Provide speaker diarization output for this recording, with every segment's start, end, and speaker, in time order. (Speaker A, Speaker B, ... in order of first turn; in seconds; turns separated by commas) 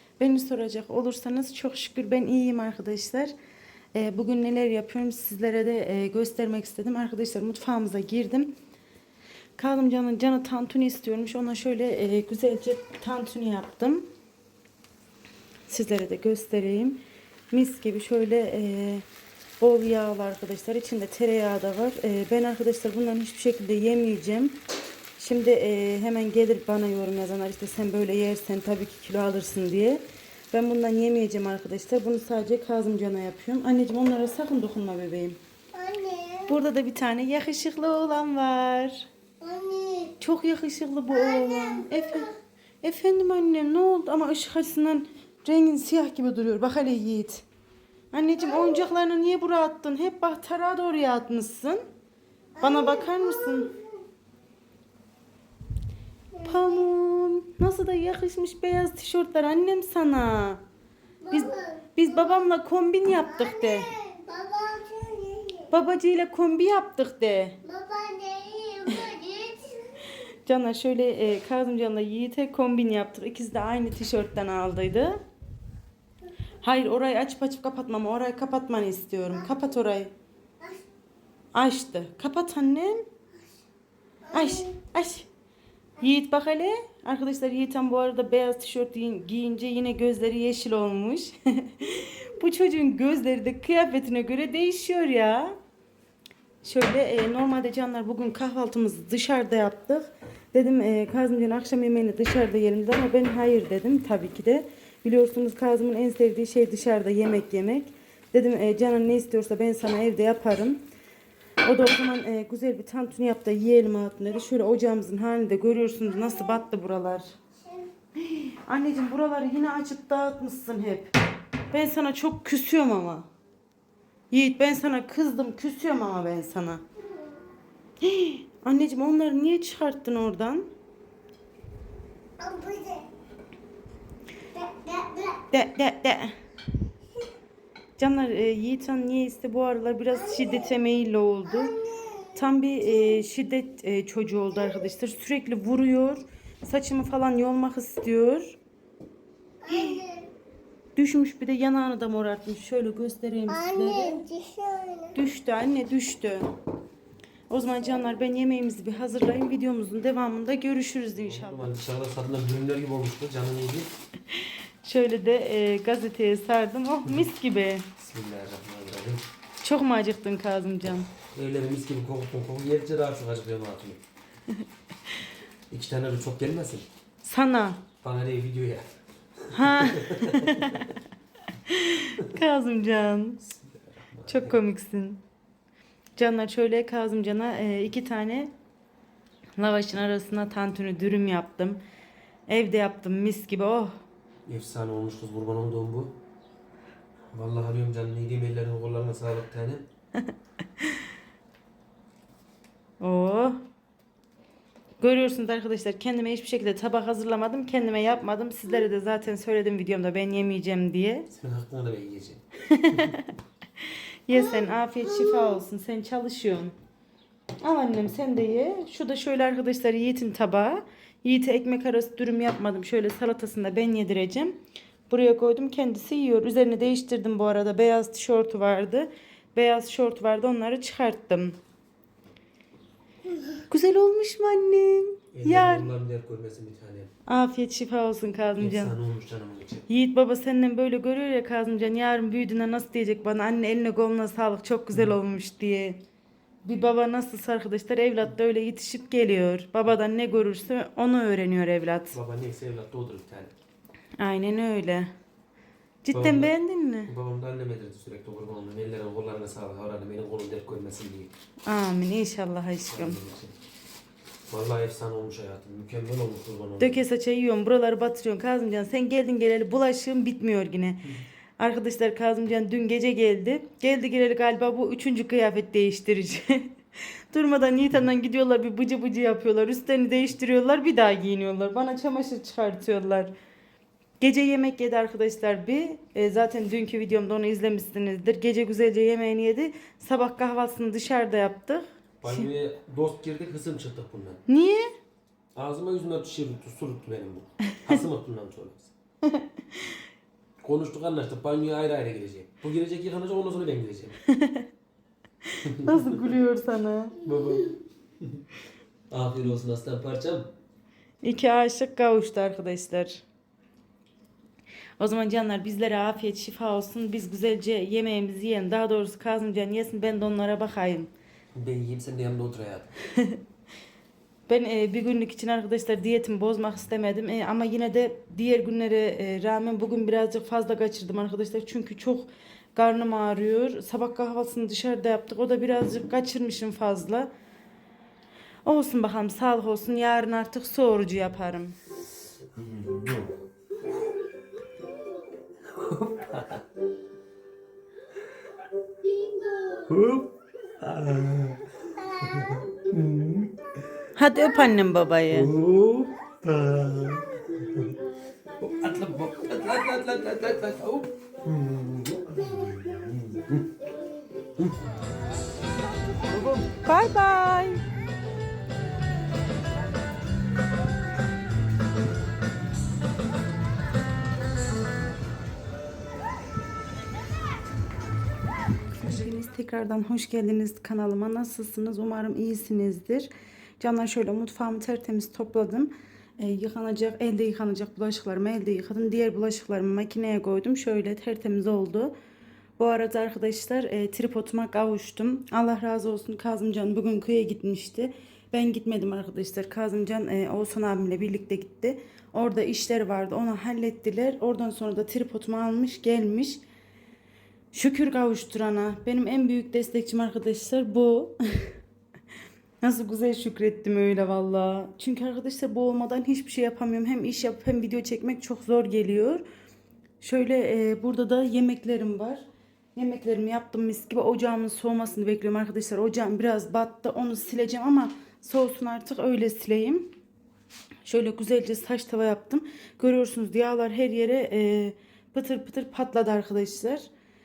Speaker A: 0.2-3.3, Speaker A: 3.9-8.5, Speaker A: 9.6-14.1, Speaker A: 15.7-17.0, Speaker A: 17.5-19.0, Speaker A: 19.6-24.6, Speaker A: 25.2-35.4, Speaker B: 35.7-36.6, Speaker A: 36.5-39.1, Speaker B: 39.4-40.2, Speaker A: 40.2-42.3, Speaker B: 41.1-42.4, Speaker A: 42.8-47.4, Speaker A: 48.1-51.8, Speaker B: 48.4-48.8, Speaker B: 52.5-54.0, Speaker A: 52.6-53.7, Speaker B: 56.4-56.8, Speaker A: 56.4-60.6, Speaker B: 61.2-62.5, Speaker A: 61.3-63.9, Speaker B: 63.1-65.7, Speaker A: 65.7-67.6, Speaker B: 67.6-70.1, Speaker A: 70.5-75.2, Speaker A: 76.6-80.1, Speaker B: 79.3-79.7, Speaker A: 81.5-83.0, Speaker B: 84.2-84.7, Speaker A: 84.3-85.3, Speaker A: 86.0-95.6, Speaker A: 96.6-110.8, Speaker A: 111.6-117.3, Speaker B: 116.1-116.6, Speaker B: 117.6-117.9, Speaker A: 118.2-121.1, Speaker A: 121.7-123.3, Speaker A: 124.3-126.8, Speaker A: 128.0-130.7, Speaker B: 132.4-133.1, Speaker B: 134.5-135.4, Speaker A: 135.5-136.3, Speaker A: 138.0-141.7, Speaker B: 140.1-140.7, Speaker B: 141.4-142.3, Speaker A: 142.3-148.6, Speaker B: 149.6-150.3, Speaker A: 149.7-150.0, Speaker A: 150.9-154.2, Speaker B: 153.5-155.1, Speaker A: 155.1-156.5, Speaker A: 157.5-161.8, Speaker C: 161.1-163.9, Speaker A: 164.8-167.9, Speaker C: 168.0-169.2, Speaker A: 169.6-171.1, Speaker C: 171.3-174.0, Speaker C: 175.7-176.9, Speaker A: 177.2-177.8, Speaker C: 178.0-178.9, Speaker C: 179.4-180.9, Speaker A: 179.5-180.9, Speaker A: 181.7-183.4, Speaker C: 183.4-184.6, Speaker A: 184.3-185.2, Speaker A: 186.2-188.5, Speaker A: 189.6-191.8, Speaker A: 192.5-193.9, Speaker C: 194.4-196.2, Speaker C: 197.3-199.9, Speaker A: 203.0-203.6, Speaker A: 205.0-211.3, Speaker C: 211.3-213.1, Speaker A: 212.7-213.3, Speaker A: 213.8-216.7, Speaker B: 214.4-214.6, Speaker B: 215.2-215.6, Speaker A: 217.6-224.6, Speaker A: 225.1-231.6, Speaker A: 233.7-235.9, Speaker C: 235.3-237.1, Speaker A: 237.3-238.9, Speaker C: 238.6-239.8, Speaker A: 239.9-246.0, Speaker A: 246.6-252.2, Speaker C: 252.1-253.5, Speaker A: 254.2-255.1, Speaker A: 256.0-257.1, Speaker C: 256.1-256.5, Speaker C: 257.1-261.3, Speaker A: 261.6-263.2, Speaker C: 262.9-263.5, Speaker C: 264.5-267.0, Speaker A: 266.8-271.0, Speaker A: 271.6-276.8, Speaker A: 277.3-283.3, Speaker A: 284.2-292.5, Speaker C: 292.2-294.4, Speaker A: 294.5-294.9, Speaker C: 295.5-298.9, Speaker A: 297.7-298.0, Speaker A: 299.2-299.8, Speaker C: 300.6-304.2, Speaker A: 304.3-304.6, Speaker C: 305.6-306.2, Speaker A: 305.8-307.2, Speaker C: 307.2-308.4, Speaker C: 309.1-310.5, Speaker A: 311.2-313.2, Speaker A: 315.0-321.1, Speaker C: 321.5-322.9, Speaker A: 324.5-337.3, Speaker A: 338.6-341.8, Speaker C: 342.6-343.3, Speaker C: 345.6-346.6, Speaker B: 349.0-349.9, Speaker C: 349.9-351.7, Speaker B: 352.0-352.6, Speaker C: 352.2-353.5, Speaker A: 354.1-355.5, Speaker C: 355.3-358.0, Speaker C: 358.6-363.8, Speaker A: 366.3-367.8, Speaker A: 379.0-392.1, Speaker A: 392.8-406.6, Speaker A: 407.7-411.7, Speaker A: 412.8-419.4, Speaker A: 420.2-422.4, Speaker A: 422.9-430.1, Speaker A: 431.1-437.1